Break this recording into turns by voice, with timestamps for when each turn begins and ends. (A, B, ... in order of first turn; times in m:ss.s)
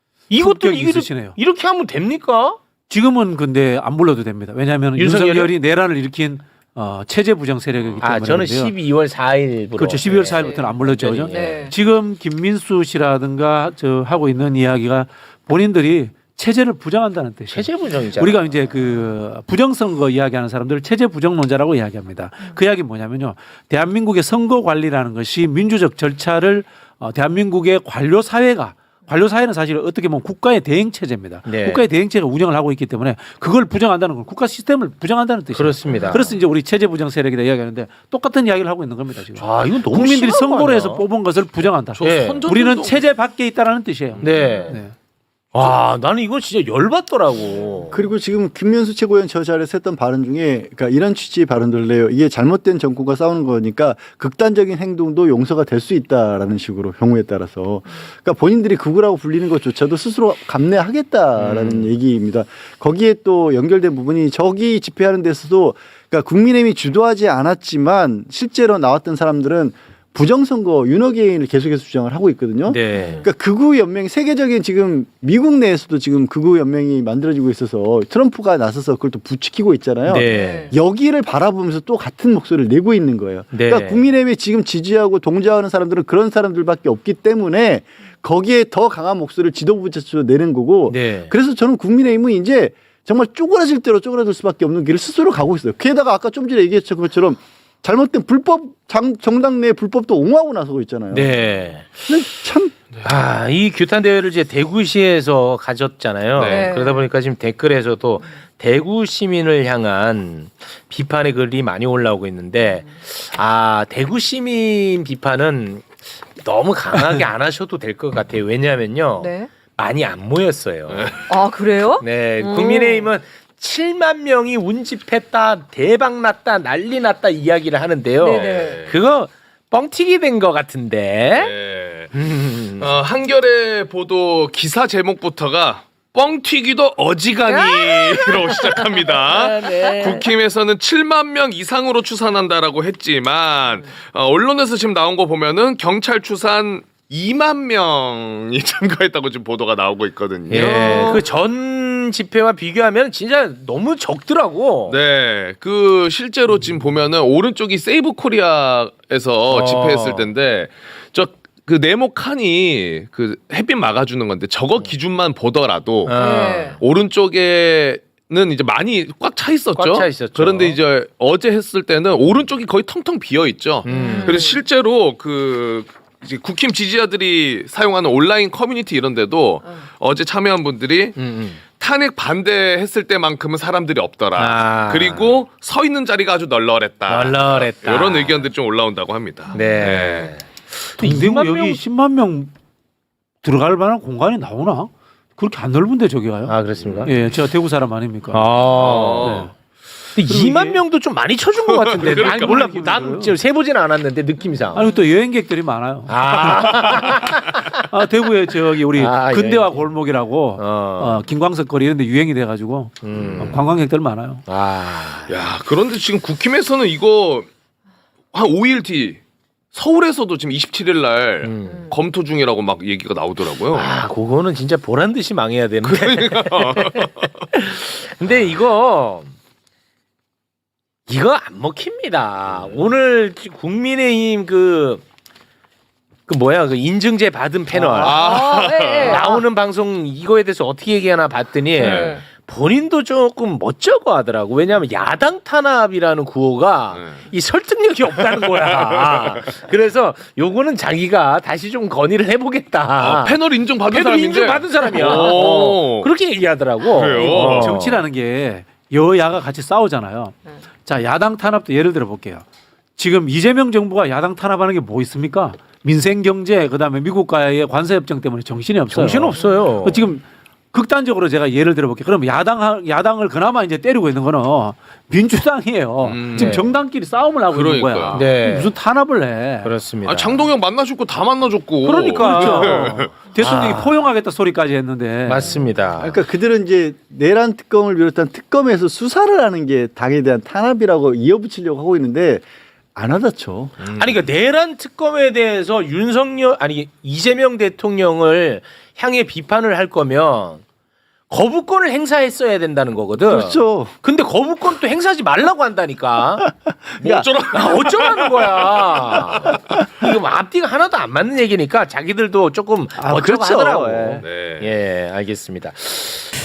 0:00.3-0:02.6 A
0:00.4-0:01.4 B
0:02.9-0:08.7 B
0:05.0-0:05.5 A
0:08.0-0:11.6 A
0:09.8-0:44.9 B
0:11.3-0:11.8 C
0:17.5-0:18.7 A
0:31.5-0:31.8 A
0:35.5-0:36.3 A
0:39.4-0:41.0 A
0:42.0-0:43.1 D
0:42.0-0:42.4 A
0:44.2-0:44.8 A
0:44.2-0:44.8 D
0:45.5-0:48.0 A
0:47.9-1:41.4 E
1:01.4-1:01.9 A
1:12.7-1:13.3 A
1:20.1-1:20.7 A
1:20.3-1:20.7 C
1:23.5-1:24.1 A
1:30.9-1:31.3 A
1:41.1-1:42.0 A
1:42.1-1:42.8 E
1:43.0-2:01.2 A
1:46.4-1:46.8 D
1:46.4-1:47.1 C
1:59.2-1:59.5 C
2:00.9-2:01.2 D
2:01.3-2:03.0 C
2:02.0-2:11.5 A
2:02.4-2:03.0 D
2:08.2-2:08.8 C
2:08.3-2:08.9 D
2:11.3-2:12.1 D
2:12.1-2:12.9 A
2:12.8-2:31.3 D
2:17.2-2:18.8 A
2:19.3-2:20.2 A
2:30.5-2:35.0 A
2:34.9-2:46.2 D
2:39.5-2:40.3 A
2:46.0-2:46.8 A
2:46.2-2:46.8 C
2:46.8-3:10.4 D
2:49.8-2:50.8 A
2:53.8-2:54.5 A
2:53.9-2:54.6 C
3:01.2-3:01.6 A
3:04.4-3:05.4 A
3:07.1-3:08.5 A
3:09.5-3:11.8 A
3:11.0-3:12.5 B
3:13.4-3:18.6 B
3:16.5-3:17.2 A
3:16.8-3:17.3 D
3:18.3-3:19.4 A
3:18.6-3:19.5 D
3:19.1-3:19.5 B
3:20.2-3:24.9 A
3:20.3-3:20.8 B
3:21.7-3:22.7 D
3:22.0-3:23.3 B
3:24.7-3:26.9 B
3:26.1-3:27.4 A
3:26.4-3:27.0 D
3:27.9-3:34.4 B
3:29.0-3:29.9 A
3:30.6-3:31.2 A
3:33.0-3:33.6 A
3:33.2-3:33.5 D
3:34.5-3:35.3 A
3:35.3-3:37.5 D
3:38.3-3:39.2 D
3:39.7-3:44.0 D
3:41.4-3:41.9 A
3:43.7-3:49.3 A
3:45.8-3:47.3 D
3:51.1-3:55.0 A
3:52.5-3:52.8 D
3:56.3-4:18.0 A
3:58.0-3:59.4 D
3:58.1-3:59.3 C
4:01.8-4:02.2 D
4:01.8-4:02.2 C
4:06.9-4:07.2 D
4:08.2-4:09.3 D
4:13.0-4:16.1 D
4:16.8-4:17.8 D
4:17.2-4:22.4 B
4:23.0-4:39.7 B
4:28.9-4:30.1 A
4:36.0-4:36.7 D
4:36.4-4:36.7 A
4:37.5-4:38.3 D
4:38.1-4:38.7 A
4:39.6-4:40.5 A
4:40.0-4:43.2 D
4:41.8-4:45.6 B
4:42.3-4:42.7 A
4:43.4-4:43.9 A
4:45.3-4:46.2 A
4:46.0-4:53.7 E
4:53.8-4:54.2 D
4:53.8-5:00.6 A
5:01.3-5:06.5 A
5:03.3-5:03.9 E
5:06.4-5:07.3 E
5:07.0-5:09.2 D
5:07.5-5:16.2 A
5:13.0-5:14.2 E
5:14.2-5:14.7 D